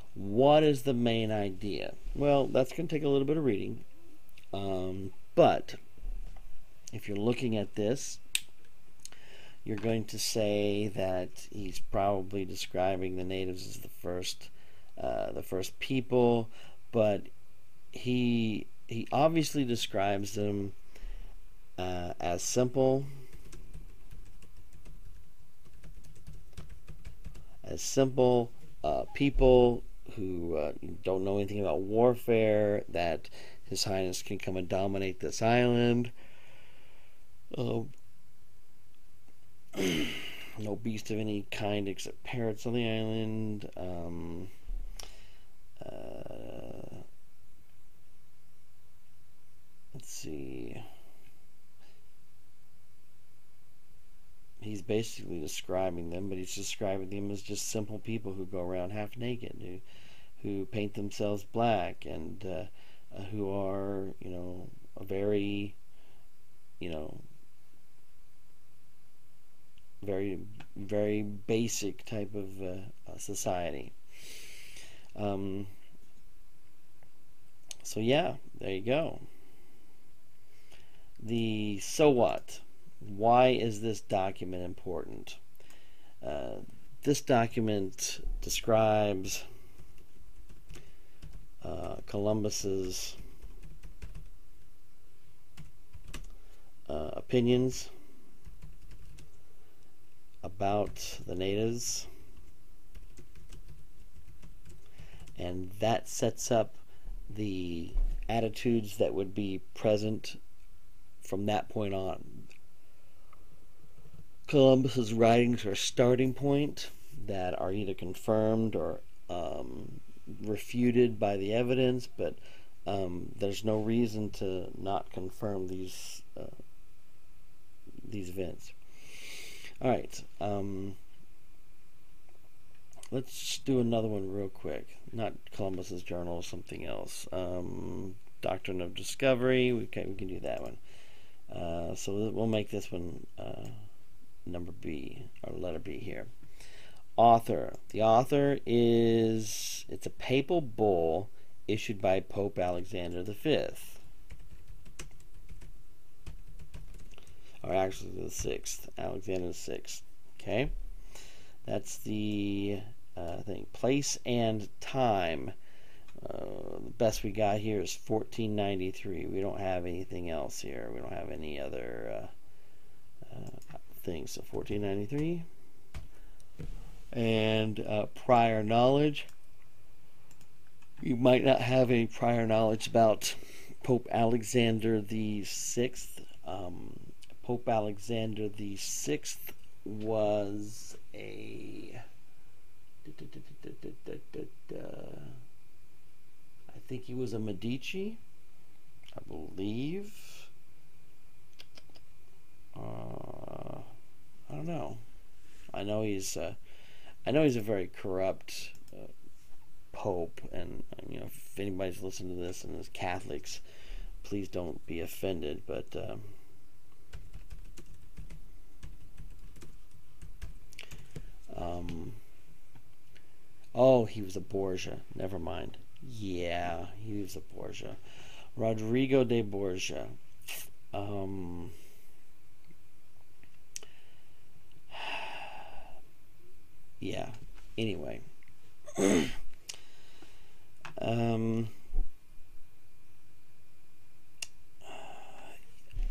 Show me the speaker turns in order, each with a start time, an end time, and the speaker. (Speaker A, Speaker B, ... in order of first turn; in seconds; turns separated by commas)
Speaker A: 0.1-3.9, Speaker A: 4.5-5.8, Speaker A: 6.9-8.2, Speaker A: 9.6-17.3, Speaker A: 17.9-20.8, Speaker A: 21.8-23.1, Speaker A: 27.6-36.1, Speaker A: 37.5-37.9, Speaker A: 39.7-44.5, Speaker A: 45.8-47.0, Speaker A: 49.9-50.9, Speaker A: 54.6-59.8, Speaker A: 60.4-65.8, Speaker A: 66.8-67.2, Speaker A: 70.0-74.6, Speaker A: 75.1-75.7, Speaker A: 77.8-79.2, Speaker A: 81.2-85.4, Speaker A: 86.2-89.5, Speaker A: 91.6-93.2, Speaker A: 96.9-97.9, Speaker A: 100.4-102.1, Speaker A: 105.3-110.4, Speaker A: 111.2-112.5, Speaker A: 114.5-126.6, Speaker A: 128.0-131.0, Speaker A: 133.1-140.8, Speaker A: 141.5-143.8, Speaker A: 144.4-146.3, Speaker A: 147.2-154.0, Speaker A: 157.6-160.7, Speaker A: 161.7-165.6, Speaker A: 166.2-172.3, Speaker A: 173.2-175.5, Speaker A: 177.1-179.3, Speaker A: 181.0-192.0, Speaker A: 193.0-195.4, Speaker A: 196.7-198.2, Speaker A: 199.2-200.5, Speaker A: 202.8-203.9, Speaker A: 204.5-205.0, Speaker A: 205.7-206.6, Speaker A: 207.2-209.1, Speaker A: 209.9-213.6, Speaker A: 214.2-216.3, Speaker A: 221.5-222.2, Speaker A: 223.8-231.8, Speaker A: 234.9-235.7, Speaker A: 237.0-238.2, Speaker A: 238.9-239.4, Speaker A: 241.0-241.8, Speaker A: 244.8-245.5